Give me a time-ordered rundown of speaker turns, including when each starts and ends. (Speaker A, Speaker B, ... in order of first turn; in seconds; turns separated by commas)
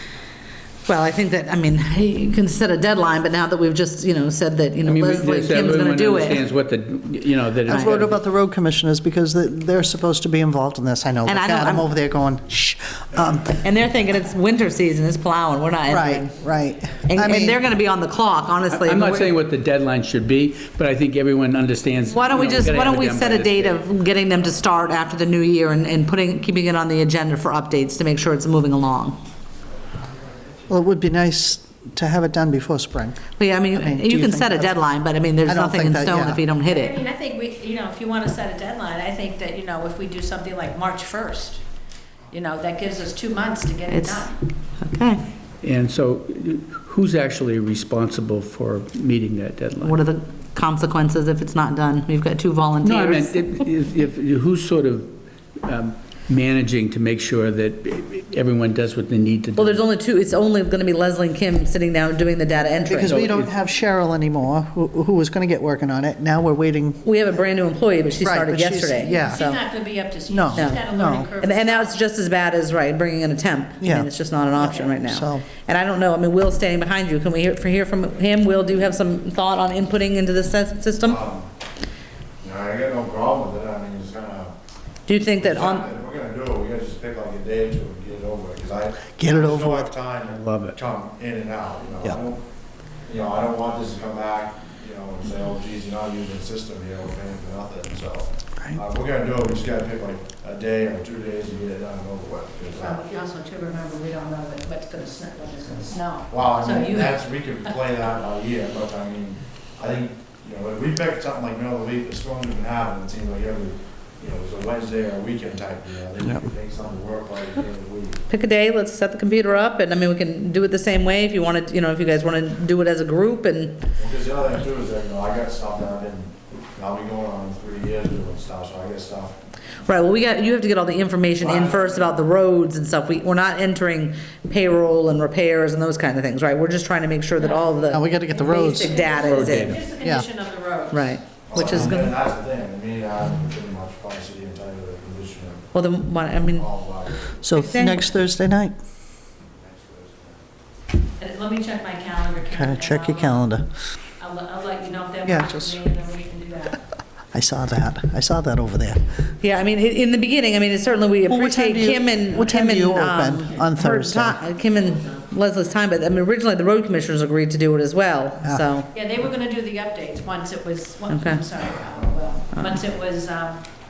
Speaker A: 0.8-6.4, Speaker B: 4.8-8.2, Speaker C: 7.7-13.6, Speaker A: 7.7-8.0, Speaker A: 11.2-11.8, Speaker A: 13.5-16.3, Speaker C: 15.9-17.6, Speaker A: 17.1-19.3, Speaker B: 18.7-23.8, Speaker A: 22.1-29.2, Speaker C: 30.7-34.9, Speaker A: 33.4-37.0, Speaker C: 35.4-36.4, Speaker D: 36.6-41.6, Speaker D: 42.3-44.3, Speaker A: 43.9-44.3, Speaker A: 44.8-45.2, Speaker B: 45.6-49.9, Speaker A: 49.8-53.4, Speaker B: 52.8-59.8, Speaker A: 59.5-63.2, Speaker C: 62.8-67.0, Speaker B: 63.0-63.5, Speaker A: 67.0-69.6, Speaker C: 68.2-69.4, Speaker D: 69.0-71.9, Speaker C: 70.3-71.3, Speaker A: 70.5-70.8, Speaker A: 71.4-81.2, Speaker C: 73.8-75.4, Speaker E: 81.0-81.5, Speaker E: 82.4-84.5, Speaker A: 85.1-85.8, Speaker E: 85.2-92.4, Speaker C: 89.2-89.9, Speaker B: 90.3-90.8, Speaker E: 93.0-103.0, Speaker D: 102.7-107.8, Speaker E: 106.3-118.2, Speaker A: 118.3-123.8, Speaker E: 124.0-129.3, Speaker A: 129.8-139.8, Speaker E: 131.4-132.1, Speaker D: 137.4-141.2, Speaker C: 137.9-139.0, Speaker B: 139.1-139.8, Speaker C: 140.0-140.2, Speaker A: 140.9-142.1, Speaker E: 141.5-145.6, Speaker C: 141.6-142.1, Speaker A: 145.7-146.7, Speaker E: 146.5-147.4, Speaker C: 147.4-148.8, Speaker A: 147.5-148.0, Speaker E: 149.4-150.4, Speaker D: 151.2-153.4, Speaker C: 152.5-153.7, Speaker D: 154.2-156.8, Speaker C: 155.2-155.8, Speaker C: 157.3-159.1, Speaker A: 159.4-168.9, Speaker C: 161.3-164.4, Speaker D: 168.9-173.6, Speaker A: 171.1-171.4